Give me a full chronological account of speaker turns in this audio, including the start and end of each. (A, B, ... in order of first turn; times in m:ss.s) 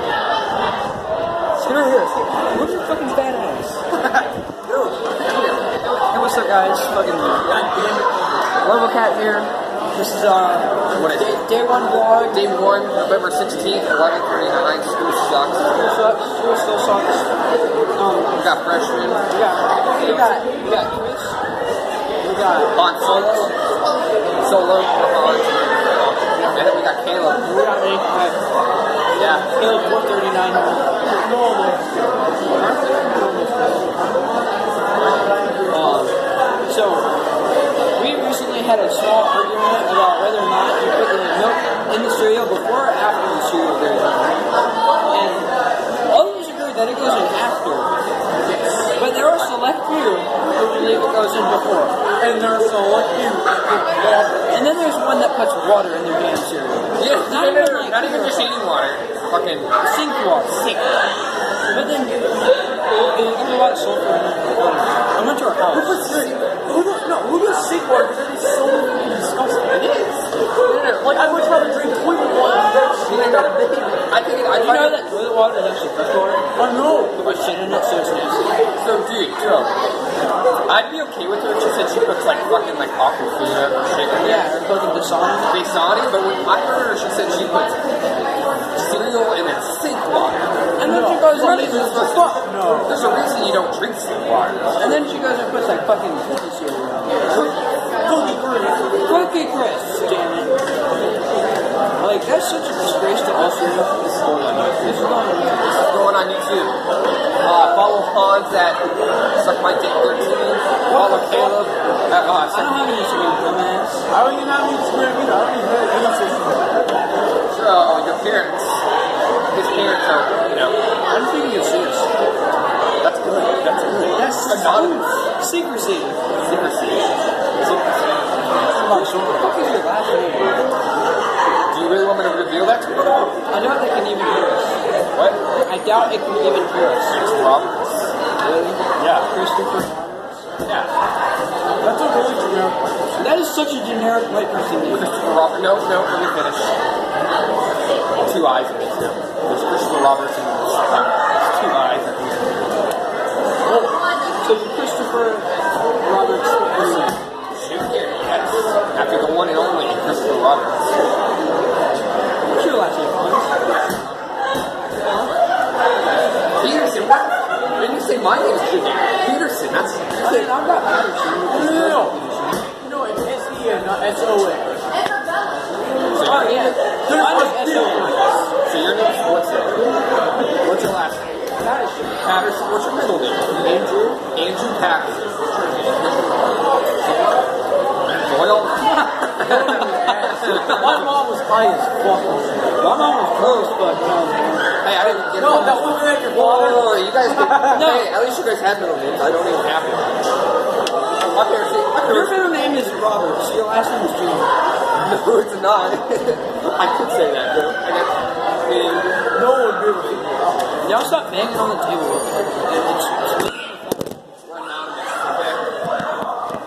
0:01.6-0:03.8 A
0:04.6-0:05.8 B
0:05.8-0:07.6 A
0:07.5-0:08.4 C
0:08.6-0:12.5 A
0:10.9-0:11.5 B
0:12.3-0:15.8 B
0:15.7-0:17.4 A
0:18.0-0:18.4 A
0:18.3-0:20.9 B
0:19.3-0:21.4 A
0:22.2-0:22.8 A
0:22.7-0:23.6 B
0:24.4-0:27.6 B
0:26.4-0:26.6 A
0:27.4-0:28.4 A
0:29.2-0:29.5 B
0:29.2-0:31.1 A
0:31.2-0:32.1 C
0:32.6-0:34.0 A
0:35.0-0:35.4 B
0:35.7-0:36.1 A
0:36.7-0:37.1 A
0:38.0-0:44.5 A
0:45.1-0:45.5 A
0:46.1-0:47.9 A
0:48.9-0:52.0 A
0:52.2-0:54.6 C
0:54.5-0:58.6 A
0:57.0-0:59.8 B
0:59.8-1:00.8 A
1:00.4-1:00.9 B
1:01.7-1:06.0 A
1:05.7-1:09.9 C
1:06.0-1:06.4 B
1:09.7-1:11.1 B
1:11.0-1:13.5 C
1:13.0-1:15.0 B
1:14.6-1:16.5 A
1:16.6-1:17.2 C
1:17.1-1:18.6 A
1:18.8-1:19.8 B
1:20.7-1:24.5 B
1:24.2-1:25.6 A
1:25.5-1:30.7 B
1:30.8-1:32.4 A
1:30.8-1:31.4 C
1:31.3-1:34.9 B
1:32.3-1:33.0 C
1:34.8-1:37.5 A
1:38.0-1:39.1 C
1:39.0-1:40.5 A
1:42.0-1:45.8 A
1:45.7-1:46.8 B
1:47.4-1:52.8 B
1:50.9-1:51.6 A
1:52.5-1:54.0 A
1:54.1-1:57.1 C
1:57.5-1:58.8 B
1:59.5-2:00.8 B
2:01.1-2:02.1 A
2:03.0-2:05.3 B
2:04.1-2:06.2 A
2:06.4-2:08.1 B
2:08.6-2:10.7 A
2:08.8-2:09.5 C
2:11.7-2:13.4 B
2:13.5-2:14.8 A
2:15.1-2:15.4 B
2:15.6-2:17.2 A
2:17.1-2:18.1 B
2:18.4-2:20.5 A
2:19.0-2:19.3 B
2:20.6-2:20.9 B
2:21.8-2:22.9 C
2:23.2-2:25.1 A
2:24.9-2:26.8 B
2:28.2-2:32.7 B
2:33.7-2:33.9 C
2:34.4-2:37.2 A
2:37.5-2:41.0 B
2:42.4-2:43.6 A
2:46.6-2:50.5 B
2:50.2-2:52.6 A
2:51.5-2:55.1 C
2:56.1-2:56.8 B
2:56.1-2:58.3 A
2:57.0-2:58.4 C
2:58.6-3:07.5 B
3:01.6-3:02.1 A
3:03.6-3:04.2 A
3:08.2-3:11.1 B
3:09.0-3:09.9 A
3:09.4-3:12.8 C
3:12.8-3:14.7 A
3:13.4-3:13.8 B
3:14.8-3:20.3 B
3:15.2-3:17.9 C
3:17.7-3:18.1 A
3:21.3-3:22.4 B
3:22.1-3:24.5 A
3:25.0-3:29.2 B
3:29.3-3:30.7 C
3:30.8-3:34.2 A
3:34.4-3:35.9 B